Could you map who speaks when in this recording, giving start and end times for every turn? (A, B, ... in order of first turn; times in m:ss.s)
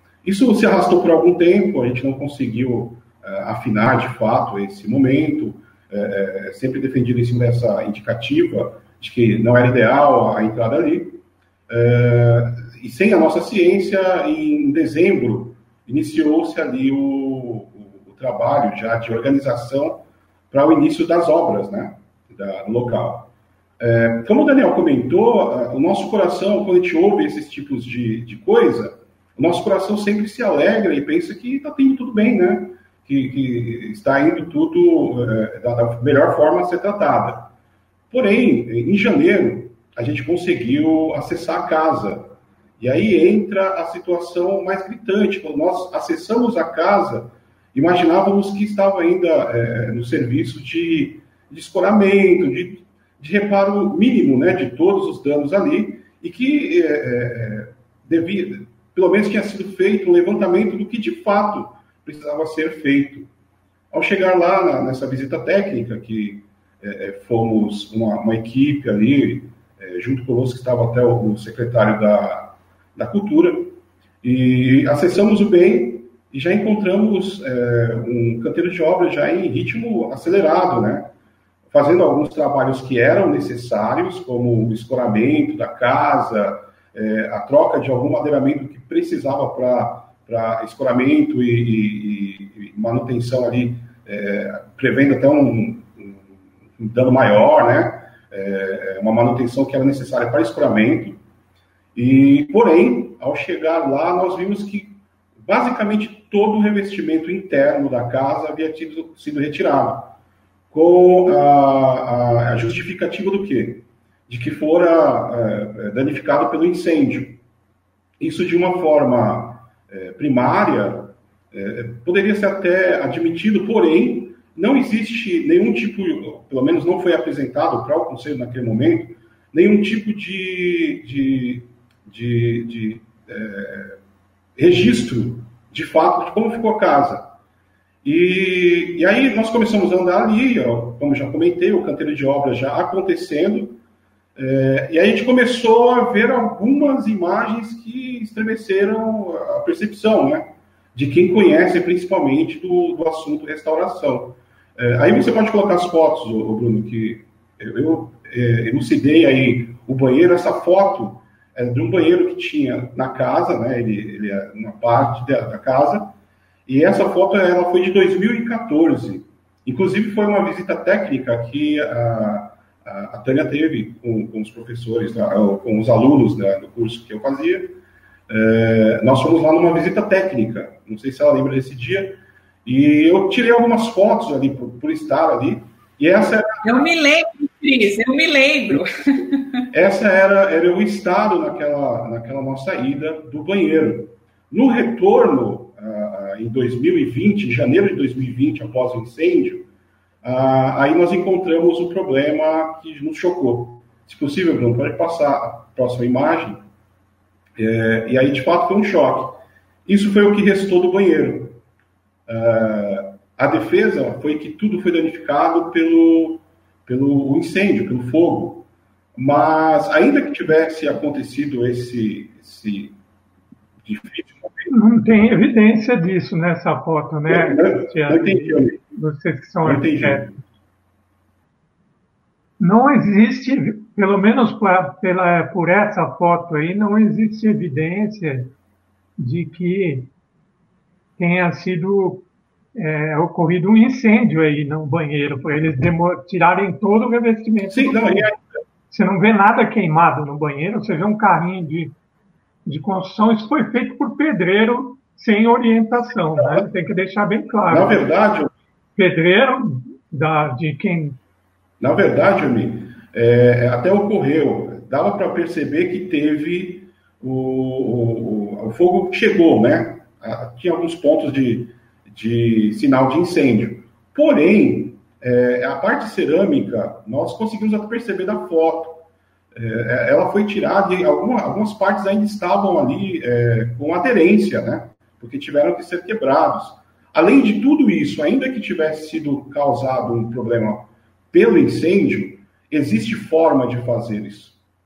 0:00.2-0:37.5 A
0:38.1-1:03.3 A
1:03.9-1:21.1 A
1:21.7-1:36.2 A
1:36.8-1:41.2 A
1:42.0-1:50.2 A
1:50.7-1:57.4 A
1:58.2-2:14.0 A
2:14.6-2:17.3 A
2:18.0-2:23.8 A
2:24.4-2:46.1 A
2:46.7-3:06.6 A
3:06.6-3:09.6 B
3:09.7-3:19.7 A
3:20.2-3:26.6 A
3:27.6-3:31.6 A
3:32.3-3:43.0 A
3:43.8-3:44.7 A
3:44.7-3:50.4 C
3:47.3-3:48.8 A
3:49.6-3:50.4 A
3:52.6-3:58.5 C
3:59.2-4:00.1 C
4:01.2-4:08.3 C
4:07.7-4:08.5 A
4:08.9-4:12.0 C
4:12.7-4:18.1 C
4:16.4-4:16.7 A
4:17.7-4:18.5 A
4:19.0-4:21.2 C
4:21.8-4:39.0 A
4:39.6-4:54.6 A